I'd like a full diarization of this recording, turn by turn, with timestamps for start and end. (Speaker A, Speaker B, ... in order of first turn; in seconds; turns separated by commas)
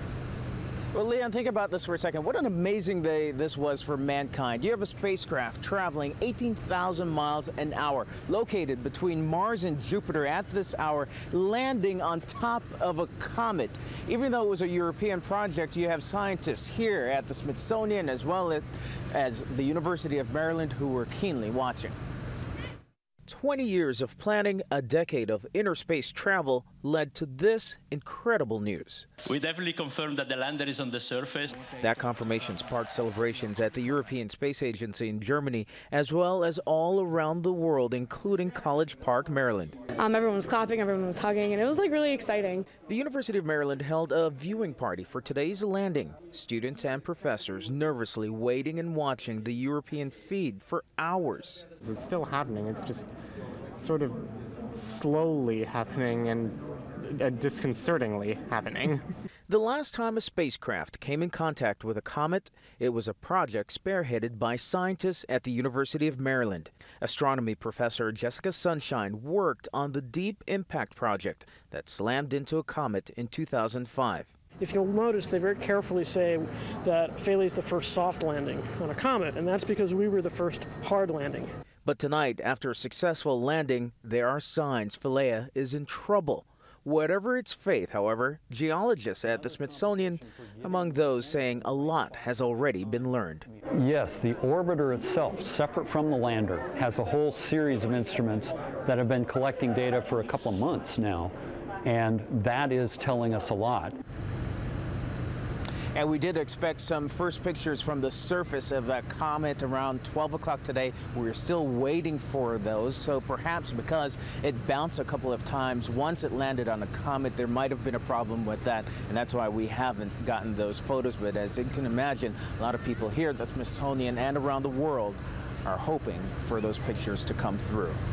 Speaker A: 0.9-21.9, Speaker A: 23.3-29.1, Speaker B: 29.2-31.6, Speaker A: 31.8-39.8, Speaker C: 40.0-42.7, Speaker A: 42.9-51.7, Speaker D: 51.8-53.1, Speaker D: 53.8-54.2, Speaker D: 54.7-59.0, Speaker A: 59.5-74.3, Speaker E: 74.6-81.5, Speaker A: 81.8-93.5, Speaker F: 93.7-101.3, Speaker F: 101.8-104.0, Speaker A: 106.0-128.0